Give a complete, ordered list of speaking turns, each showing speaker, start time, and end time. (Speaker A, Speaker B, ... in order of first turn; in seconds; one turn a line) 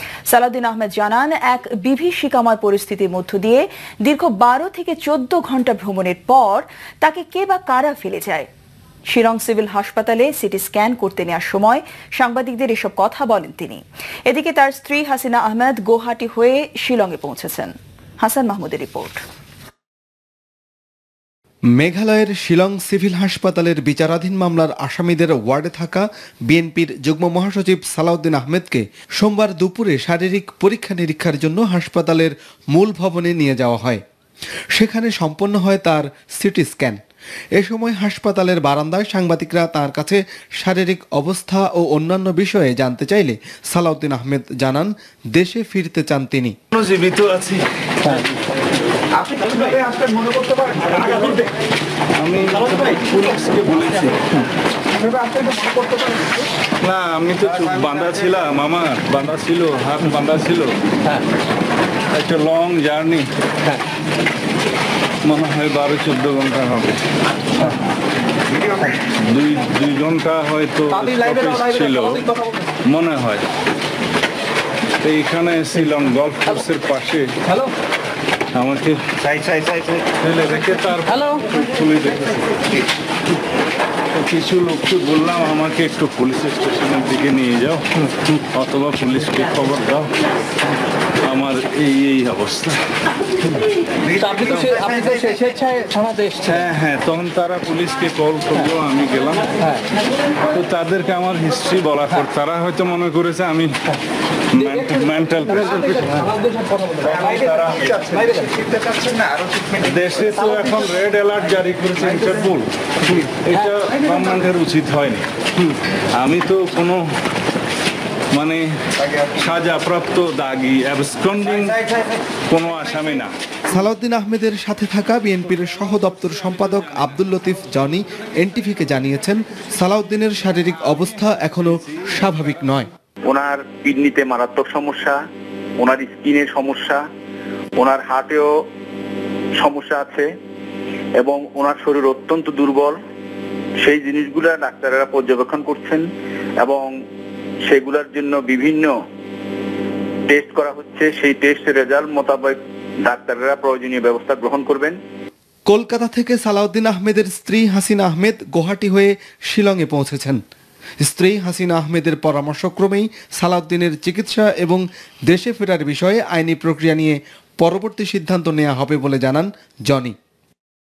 Speaker A: 0.3-8.5
Speaker A: 9.1-19.2
Speaker B: 21.8-34.0
Speaker B: 34.7-37.0
Speaker B: 37.5-46.6
Speaker C: 46.7-48.2
Speaker C: 49.2-49.9
Speaker D: 49.3-50.9
Speaker C: 50.8-51.5
Speaker C: 52.2-54.4
Speaker D: 55.0-56.4
Speaker C: 56.8-60.8
Speaker C: 62.1-63.3
Speaker C: 65.2-67.0
Speaker C: 69.1-73.4
Speaker C: 75.0-77.7
Speaker C: 78.5-82.7
Speaker C: 84.1-90.1
Speaker C: 91.2-92.9
Speaker C: 94.1-95.2
Speaker D: 94.2-96.4
Speaker C: 96.3-99.8
Speaker C: 100.5-103.9
Speaker C: 104.5-108.6
Speaker D: 108.3-109.4
Speaker C: 109.6-117.0
Speaker C: 118.3-121.9
Speaker C: 122.5-123.3
Speaker B: 123.7-132.9
Speaker E: 133.2-135.2
Speaker E: 135.8-137.0
Speaker E: 137.8-138.5
Speaker E: 139.6-140.3
Speaker E: 141.2-143.0
Speaker E: 143.8-146.1
Speaker E: 146.6-146.9
Speaker E: 147.7-148.9
Speaker E: 150.3-155.0
Speaker B: 155.7-160.4
Speaker B: 161.0-170.1